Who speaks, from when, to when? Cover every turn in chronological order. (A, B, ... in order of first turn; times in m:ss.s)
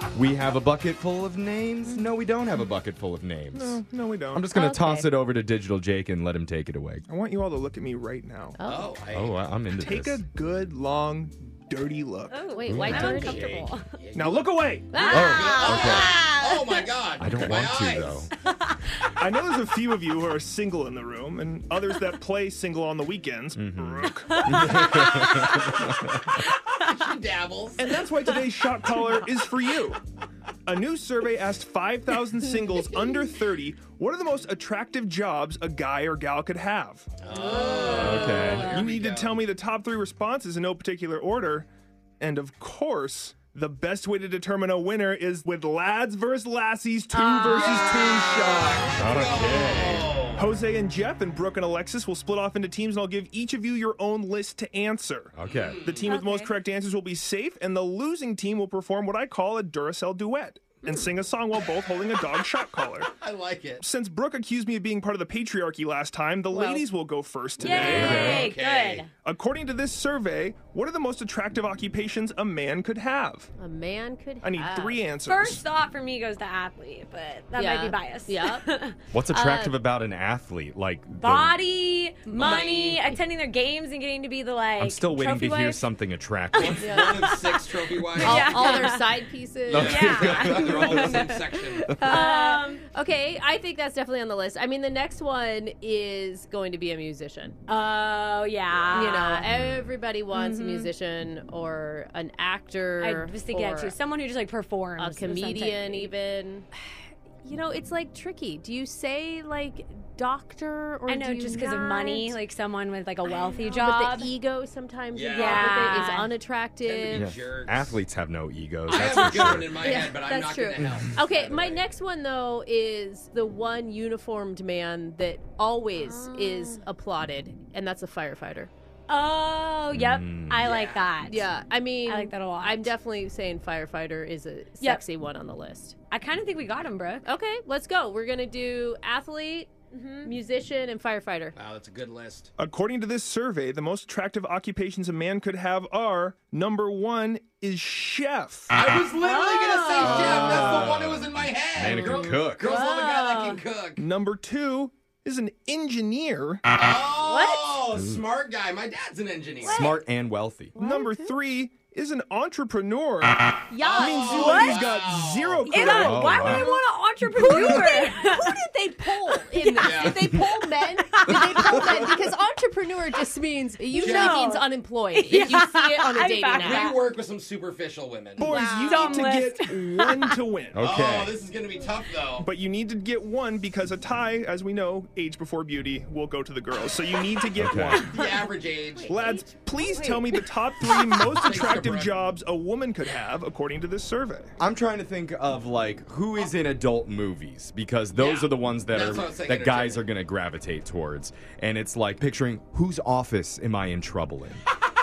0:00.1-0:03.8 A
0:03.5-0:04.5 B
0:04.3-0:07.1 A
0:04.5-0:05.1 C
0:07.1-0:08.6 B
0:08.6-0:09.0 C
0:08.6-0:09.4 D
0:09.1-0:10.2 A
0:09.7-0:12.5 B
0:12.3-0:13.9 E
0:12.5-0:13.7 C
0:12.7-0:13.1 A
0:12.9-0:18.3 D
0:14.2-0:15.1 B
0:14.9-0:16.9 C
0:15.0-0:16.0 E
0:15.1-0:16.2 A
0:17.2-0:18.3 A
0:19.2-0:24.8 B
0:23.6-0:26.4 A
0:24.3-0:25.8 E
0:25.0-0:25.3 D
0:26.5-0:26.9 E
0:26.8-0:27.9 D
0:27.8-0:30.0 B
0:30.7-0:37.1 B
0:37.2-0:39.4 D
0:37.4-0:38.9 E
0:38.0-0:38.7 A
0:38.6-0:41.7 B
0:42.2-0:49.5 B
0:47.2-0:47.7 E
0:47.5-0:50.4 D
0:49.0-0:50.2 A
0:50.4-1:03.1 B
0:55.4-0:55.8 A
0:55.4-0:56.2 D
0:56.0-0:56.5 E
1:03.1-1:03.8 D
1:03.8-1:08.5 B
1:06.5-1:06.8 C
1:07.6-1:09.1 D
1:07.6-1:09.1 E
1:07.8-1:08.5 A
1:09.2-1:13.5 B
1:13.6-1:15.0 C
1:14.4-1:15.6 B
1:15.2-1:19.0 E
1:17.6-1:18.6 C
1:19.1-1:21.6 A
1:19.3-1:19.8 C
1:21.2-1:25.9 E
1:22.3-1:23.0 D
1:24.8-1:27.1 A
1:26.5-1:29.1 E
1:26.6-1:28.9 D
1:26.8-1:27.3 C
1:28.2-1:30.1 C
1:29.7-1:31.1 A
1:29.7-1:32.2 D
1:29.8-1:32.8 E
1:32.0-1:37.6 C
1:37.7-1:39.5 E
1:38.9-1:44.0 C
1:39.4-1:39.9 A
1:40.3-1:40.9 E
1:43.0-1:46.1 E
1:45.0-1:46.7 C
1:47.4-1:52.4 C
1:51.1-1:54.3 E
1:53.2-1:57.3 C
1:55.1-1:55.9 D
1:55.3-1:56.3 E
1:56.8-1:58.0 D
1:57.1-1:59.9 A
1:58.9-2:01.8 D
1:59.7-2:08.7 C
2:00.8-2:01.0 A
2:06.0-2:06.8 E
2:09.1-2:11.4 E
2:09.9-2:10.6 A
2:10.6-2:11.1 D
2:11.2-2:16.0 C
2:12.0-2:12.9 E
2:16.1-2:17.3 E
2:17.2-2:19.7 C
2:19.9-2:20.3 E
2:20.2-2:21.6 C
2:21.6-2:22.5 D
2:22.6-2:28.8 B
2:28.7-2:34.0 D
2:29.1-2:30.9 E
2:30.0-2:32.7 A
2:31.8-2:32.3 B
2:32.6-2:33.6 E
2:34.0-2:36.6 B
2:36.7-2:40.0 D
2:37.2-2:37.8 E
2:38.0-2:38.2 A
2:39.6-2:40.0 E
2:39.7-2:40.7 A
2:40.7-2:41.3 E
2:40.8-2:46.6 B
2:43.7-2:44.4 C
2:43.7-2:44.9 E
2:44.0-2:45.7 D
2:45.7-2:48.6 E
2:46.0-2:46.7 A
2:46.4-2:57.0 C
2:49.1-2:50.1 E
2:49.8-2:50.2 D
2:51.1-2:52.0 E
2:51.6-2:52.0 A
2:53.9-2:57.1 E
2:54.0-2:54.4 D
2:56.6-2:58.6 D
2:58.4-3:00.9 B
2:58.4-3:00.4 E
2:58.5-2:59.0 C
3:00.7-3:01.4 A
3:00.8-3:02.5 D
3:02.4-3:08.2 B
3:07.6-3:08.1 A
3:08.1-3:09.2 D
3:09.0-3:11.3 E
3:09.1-3:14.5 B
3:11.2-3:12.2 D
3:14.6-3:24.6 A
3:18.1-3:20.1 D